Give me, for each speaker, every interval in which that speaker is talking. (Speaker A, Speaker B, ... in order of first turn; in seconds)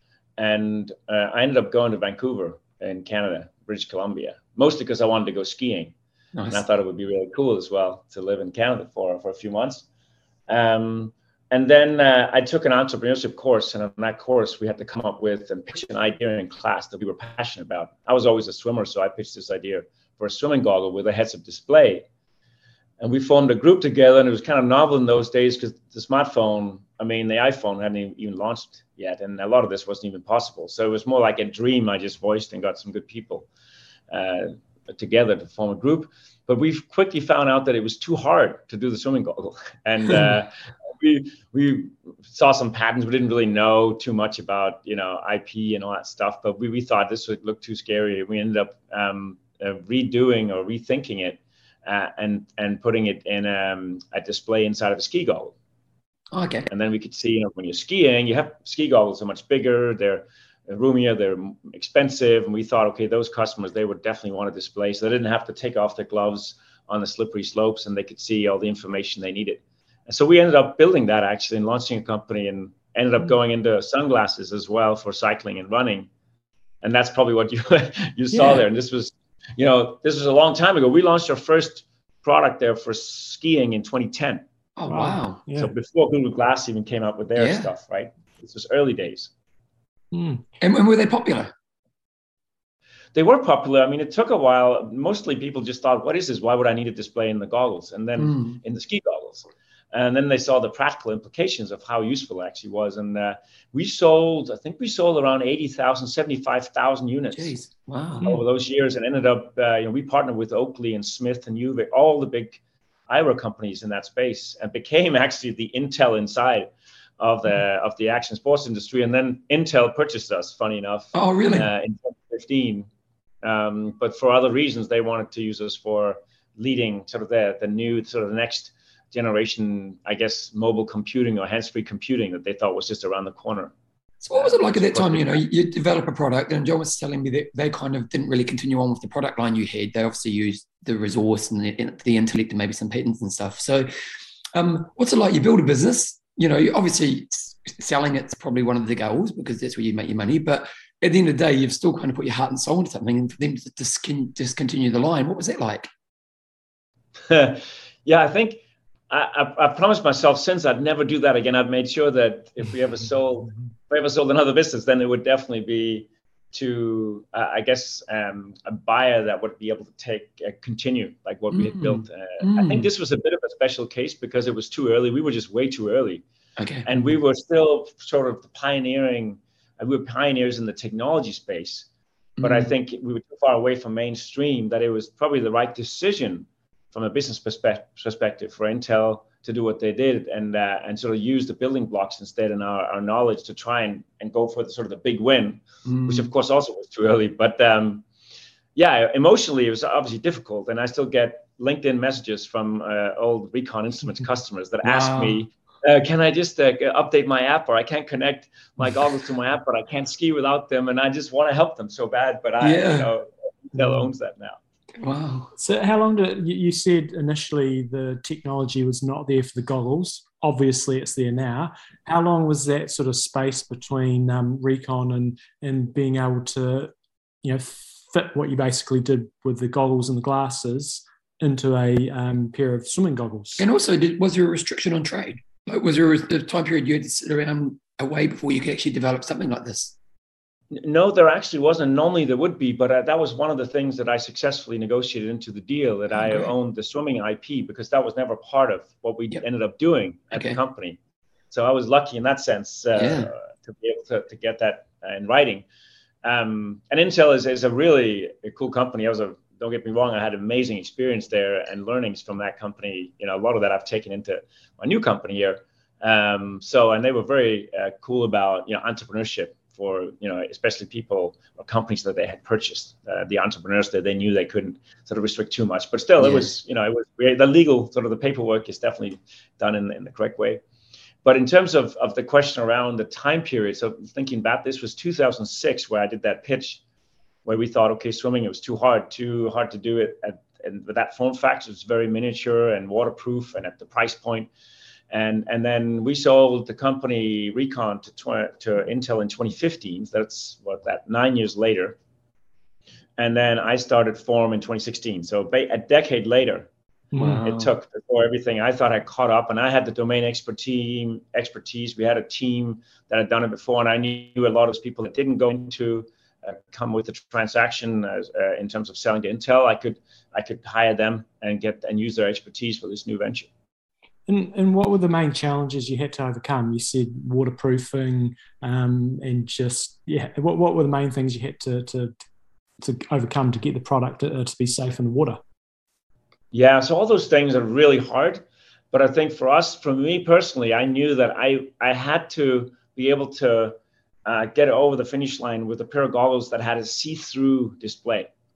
Speaker A: 0.4-5.9, 6.5-9.8, 10.5-22.0, 23.0-33.5, 34.1-55.5, 56.7-76.1, 76.8-84.4, 85.5-89.3, 93.1-107.5, 108.2-122.9, 123.4-133.7, 134.3-135.4, 157.2-176.2, 176.8-181.9, 182.4-198.0, 198.7-214.6, 240.7-251.0, 251.5-255.6, 256.2-280.6, 281.2-286.8, 287.4-294.5, 295.1-302.0, 303.2-306.7, 307.4-323.5, 336.5-348.3
Speaker B: 6.3-6.6, 56.3-56.7, 84.8-85.4, 87.3-87.7, 90.6-91.5, 98.2-98.6, 107.3-108.4, 121.1-121.7, 134.2-143.9, 144.5-155.9, 171.5-172.9, 176.6-176.9, 182.4-182.7, 195.8-196.3, 204.8-205.4, 212.6-213.1, 215.0-215.5, 233.6-239.9, 246.1-246.5, 250.3-250.6, 252.9-253.3, 276.2-276.5, 307.2-307.7
Speaker C: 84.9-85.7, 90.1-90.4, 215.6-226.9, 227.4-233.6, 307.1-307.4, 324.3-332.1, 332.8-335.4